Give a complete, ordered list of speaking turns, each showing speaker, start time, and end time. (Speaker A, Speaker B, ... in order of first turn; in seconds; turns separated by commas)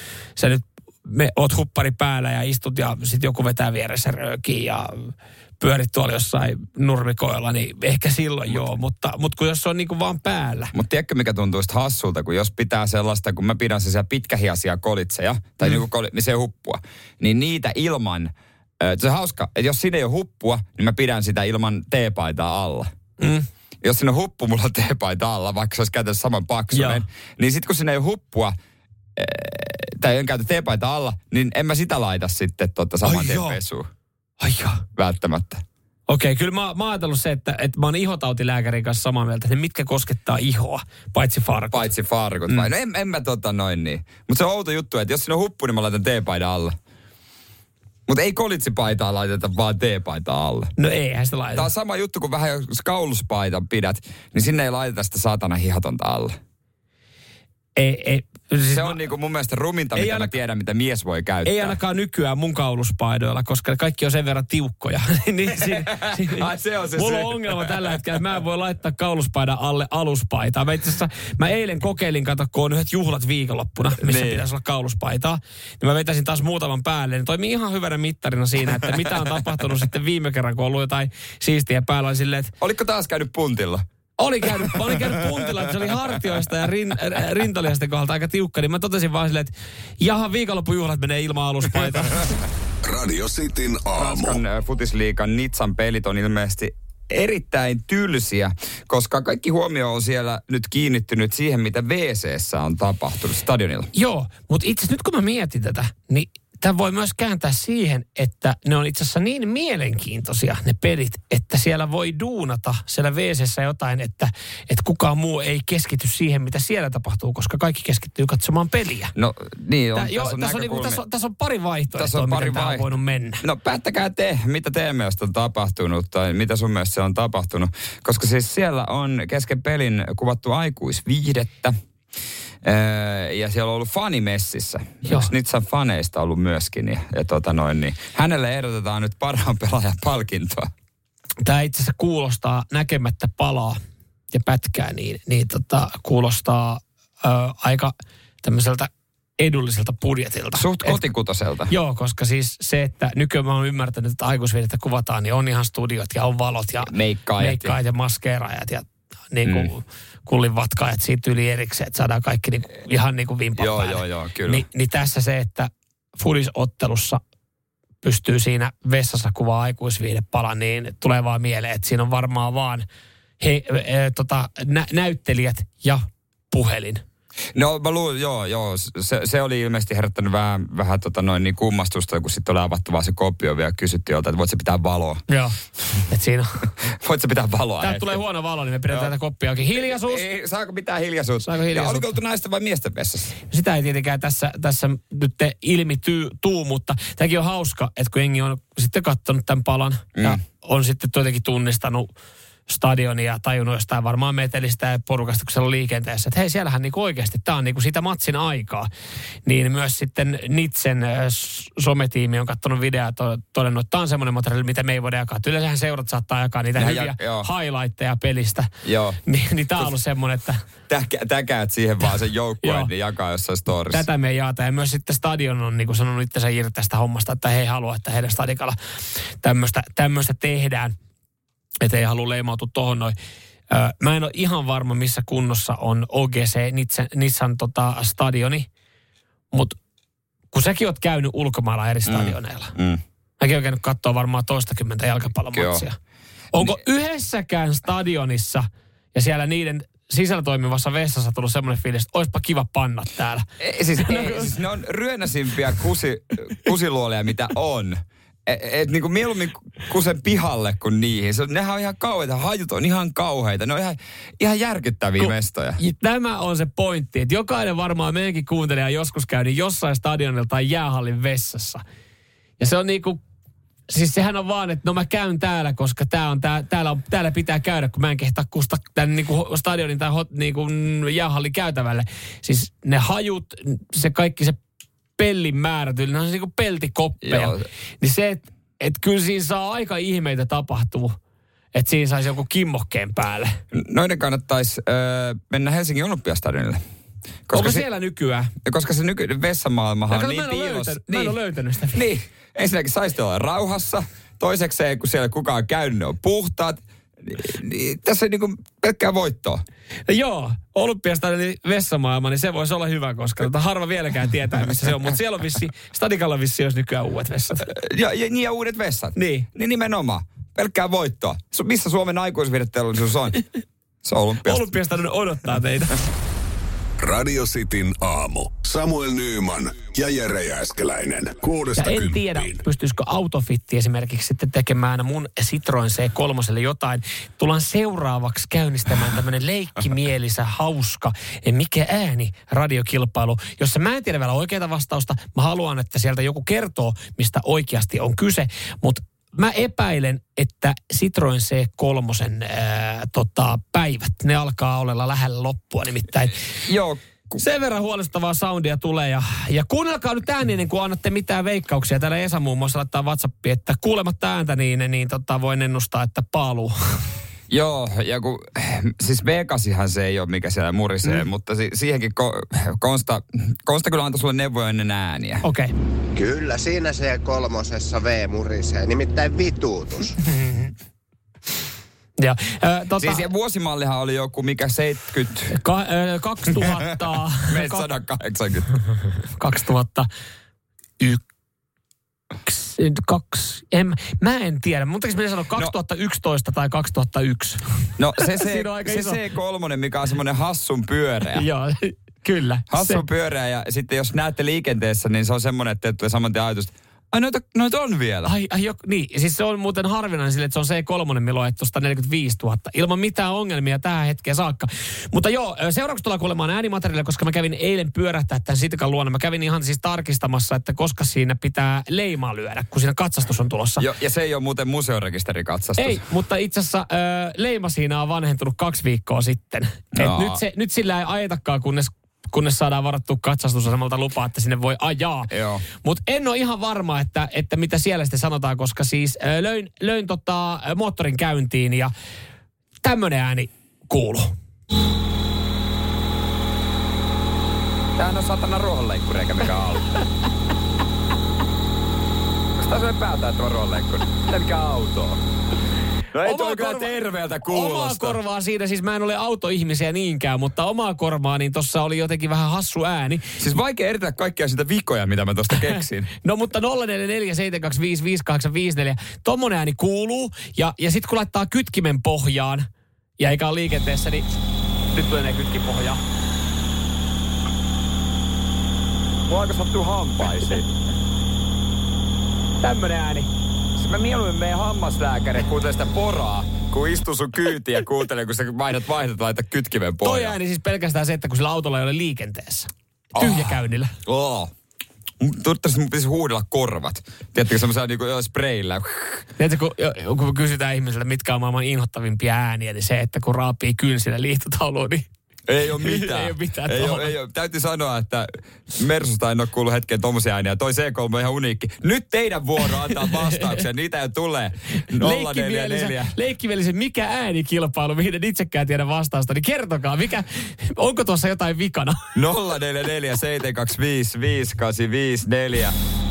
Speaker A: 0.3-10.7, Speaker B: 10.7-22.9, Speaker A: 23.2-23.4, Speaker B: 23.8-28.5, Speaker A: 26.7-27.0, Speaker B: 29.1-33.9, Speaker A: 33.0-33.6, Speaker A: 34.4-34.8, Speaker B: 35.0-35.6, Speaker A: 36.1-41.9, Speaker B: 41.7-46.8, Speaker B: 48.1-50.7, Speaker A: 50.8-51.7, Speaker B: 51.5-56.4, Speaker A: 57.8-59.0, Speaker B: 58.7-61.8, Speaker A: 59.9-60.3, Speaker A: 61.4-82.5, Speaker B: 65.5-68.0, Speaker B: 74.0-74.4, Speaker B: 82.6-83.8, Speaker A: 84.2-92.3, Speaker B: 84.6-85.1, Speaker C: 92.8-94.4, Speaker B: 94.0-103.9, Speaker A: 103.9-119.1, Speaker B: 119.1-121.0, Speaker A: 119.9-123.4, Speaker B: 121.9-122.9, Speaker B: 123.4-131.8, Speaker B: 132.6-140.7, Speaker A: 135.1-135.3, Speaker A: 141.4-143.8, Speaker A: 144.3-151.0, Speaker B: 150.5-151.7, Speaker A: 151.7-167.2, Speaker B: 156.8-157.8, Speaker B: 159.4-159.7, Speaker B: 163.6-164.7, Speaker A: 168.0-172.8, Speaker A: 173.4-177.0, Speaker B: 177.5-185.2, Speaker A: 185.3-185.5, Speaker A: 186.1-186.7, Speaker B: 186.8-188.2, Speaker A: 187.8-190.2, Speaker B: 189.7-193.3, Speaker A: 191.4-192.1, Speaker A: 193.5-202.1, Speaker A: 202.7-208.9, Speaker A: 209.4-218.7, Speaker B: 216.8-217.5, Speaker B: 218.8-219.2, Speaker A: 219.2-220.6, Speaker B: 220.9-224.1, Speaker A: 222.6-222.9, Speaker A: 223.9-228.8, Speaker A: 229.4-230.9, Speaker A: 231.8-233.1, Speaker A: 233.7-238.7, Speaker A: 240.5-242.7, Speaker B: 242.1-243.0, Speaker A: 243.4-246.0, Speaker B: 245.5-245.8, Speaker A: 246.5-253.4, Speaker B: 253.6-265.8, Speaker A: 254.0-254.5, Speaker A: 265.2-271.8, Speaker A: 272.6-273.2, Speaker A: 273.9-284.6, Speaker A: 285.2-291.1, Speaker B: 287.2-287.6, Speaker A: 291.7-293.6, Speaker B: 293.7-296.8, Speaker B: 297.5-297.9, Speaker A: 297.5-298.5, Speaker B: 298.6-301.4, Speaker A: 300.1-302.0, Speaker B: 301.9-309.6, Speaker A: 310.1-317.7, Speaker B: 317.7-323.4, Speaker A: 319.1-319.5, Speaker B: 324.0-324.7, Speaker A: 324.4-326.0, Speaker C: 327.0-332.6, Speaker A: 331.8-356.4, Speaker B: 356.6-357.4, Speaker A: 357.4-366.7, Speaker B: 367.5-375.4, Speaker A: 375.4-375.7, Speaker D: 376.1-380.1, Speaker A: 380.2-380.7, Speaker A: 382.2-383.2, Speaker B: 383.0-385.6, Speaker A: 385.5-387.9, Speaker B: 387.4-388.7, Speaker A: 389.4-390.1, Speaker A: 392.4-397.6, Speaker B: 398.0-401.4, Speaker A: 398.2-399.2, Speaker A: 401.3-403.0, Speaker B: 402.7-408.3, Speaker A: 408.2-423.8, Speaker B: 423.8-426.0, Speaker A: 425.8-441.9, Speaker B: 429.9-430.4, Speaker B: 435.3-435.6, Speaker A: 442.8-444.3, Speaker B: 447.9-449.9, Speaker B: 452.5-455.2, Speaker B: 456.1-458.2, Speaker A: 456.2-463.3, Speaker B: 463.4-466.1, Speaker A: 466.2-472.7, Speaker A: 473.2-474.3, Speaker A: 474.9-476.0, Speaker B: 479.3-480.7, Speaker A: 482.6-483.3, Speaker B: 483.7-490.4, Speaker A: 490.0-493.9, Speaker B: 493.1-494.5, Speaker B: 495.2-499.2, Speaker A: 499.4-505.1, Speaker B: 505.5-516.1, Speaker A: 505.8-507.1, Speaker A: 514.9-522.0, Speaker B: 522.1-525.8